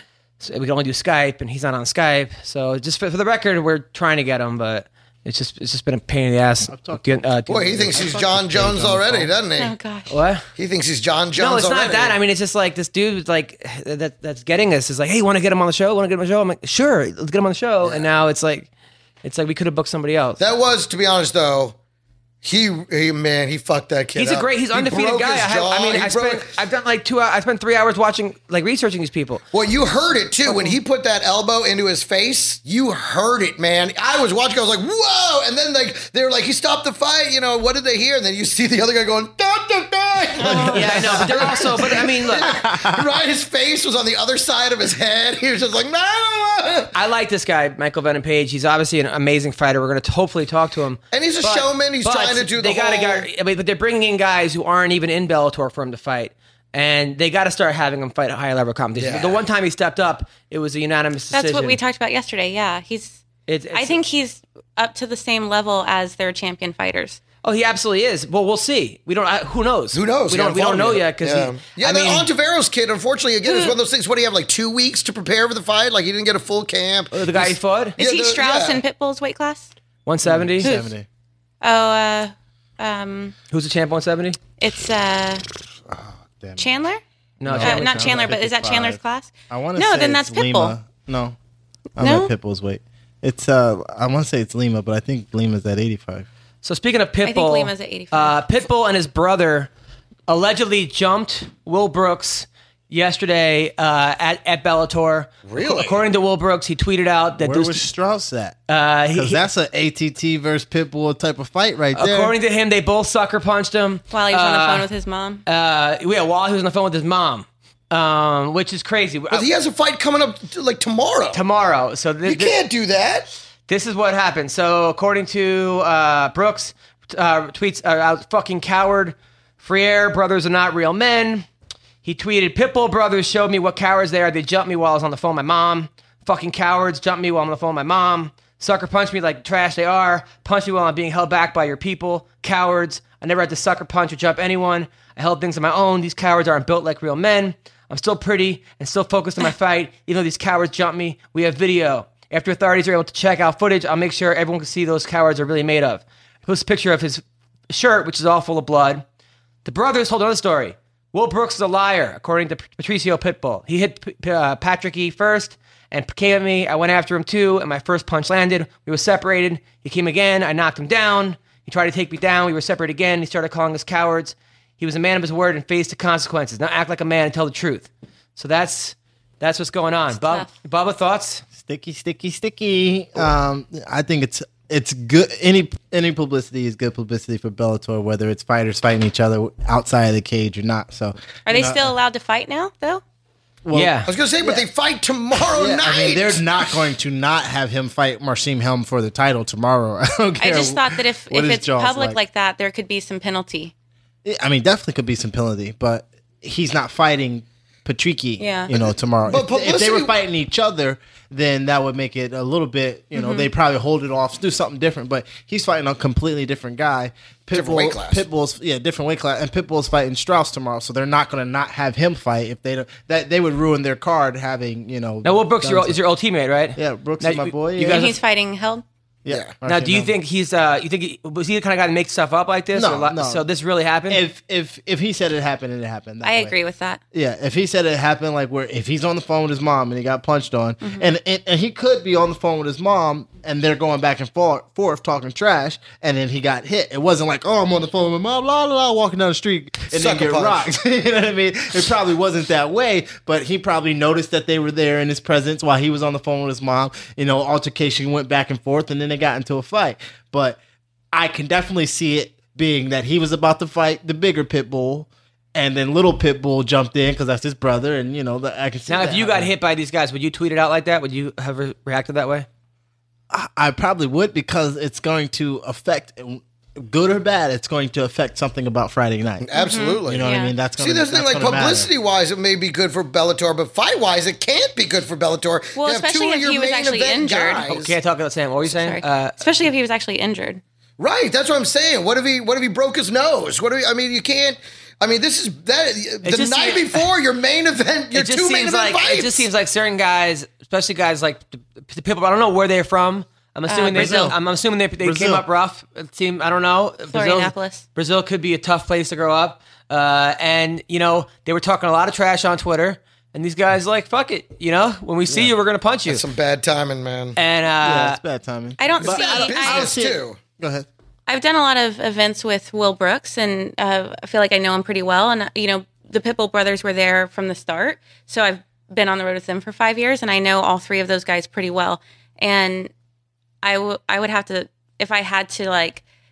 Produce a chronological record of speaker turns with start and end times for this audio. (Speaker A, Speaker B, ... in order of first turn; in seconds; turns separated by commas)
Speaker A: 0.4-8.0, Speaker B: 6.7-9.3, Speaker C: 7.5-9.7, Speaker D: 9.6-10.1, Speaker A: 10.1-10.4, Speaker C: 10.6-12.2, Speaker A: 11.4-18.7, Speaker A: 19.2-20.4, Speaker C: 20.4-21.8, Speaker C: 22.4-26.5, Speaker A: 24.1-29.4, Speaker C: 29.5-46.9, Speaker D: 30.5-30.8, Speaker D: 40.4-40.9, Speaker B: 40.4-41.7, Speaker A: 40.7-42.5, Speaker B: 42.3-43.0, Speaker A: 46.9-61.8, Speaker C: 51.1-53.2, Speaker C: 59.0-59.4, Speaker D: 61.3-67.2, Speaker A: 63.5-64.0, Speaker A: 67.4-72.3, Speaker C: 69.9-78.8, Speaker D: 73.4-73.8, Speaker A: 77.1-78.0, Speaker D: 78.0-79.7, Speaker A: 80.0-80.7, Speaker B: 80.2-81.0, Speaker D: 80.6-80.9, Speaker D: 81.6-83.3, Speaker A: 83.5-84.4, Speaker D: 84.6-85.4, Speaker B: 85.9-86.7, Speaker D: 86.6-87.0, Speaker A: 87.4-88.3, Speaker B: 87.4-89.0, Speaker D: 87.6-90.7, Speaker B: 89.5-91.3, Speaker B: 92.0-96.3, Speaker D: 92.0-92.3, Speaker A: 96.6-99.7, Speaker D: 97.2-98.5, Speaker A: 100.3-107.8, Speaker C: 105.4-106.0, Speaker B: 107.4-108.6, Speaker A: 108.7-109.4, Speaker B: 109.1-112.3, Speaker A: 111.9-114.9, Speaker D: 114.1-115.4, Speaker A: 115.5-119.5, Speaker C: 119.3-121.4, Speaker A: 121.3-122.6, Speaker C: 122.2-123.3, Speaker A: 123.7-131.5, Speaker A: 132.0-159.0, Speaker A: 159.6-181.4, Speaker D: 180.2-180.5, Speaker B: 181.6-191.9, Speaker D: 191.4-193.0, Speaker B: 193.6-194.6, Speaker A: 193.7-194.1, Speaker C: 194.1-196.7, Speaker B: 195.5-202.2, Speaker D: 200.4-203.7, Speaker B: 204.2-225.9, Speaker D: 208.4-208.7, Speaker C: 209.2-210.1, Speaker D: 213.1-213.5, Speaker C: 217.5-218.2, Speaker A: 225.2-228.1, Speaker B: 226.8-228.1, Speaker D: 227.8-228.8, Speaker B: 229.2-230.1, Speaker A: 229.6-234.2, Speaker B: 232.7-233.4, Speaker B: 234.1-236.5, Speaker D: 236.2-237.0, Speaker B: 237.1-260.6, Speaker D: 240.8-241.1, Speaker C: 249.9-250.7, Speaker B: 261.1-269.5, Speaker A: 268.9-272.5, Speaker B: 273.3-279.5, Speaker C: 279.4-287.9, Speaker D: 279.5-280.5, Speaker B: 280.0-281.9, Speaker D: 285.7-287.6, Speaker A: 287.6-289.4, Speaker D: 288.7-290.6, Speaker C: 291.0-299.4, Speaker A: 296.2-297.0, Speaker A: 298.1-316.2, Speaker D: 303.7-304.3, Speaker B: 303.9-304.3, Speaker B: 305.0-305.4, Speaker D: 307.1-307.8, Speaker C: 316.1-317.4, Speaker A: 317.4-318.2, Speaker B: 317.8-320.9, Speaker D: 318.8-319.9, Speaker C: 319.0-320.4, Speaker D: 321.3-332.9, Speaker D: 333.6-336.0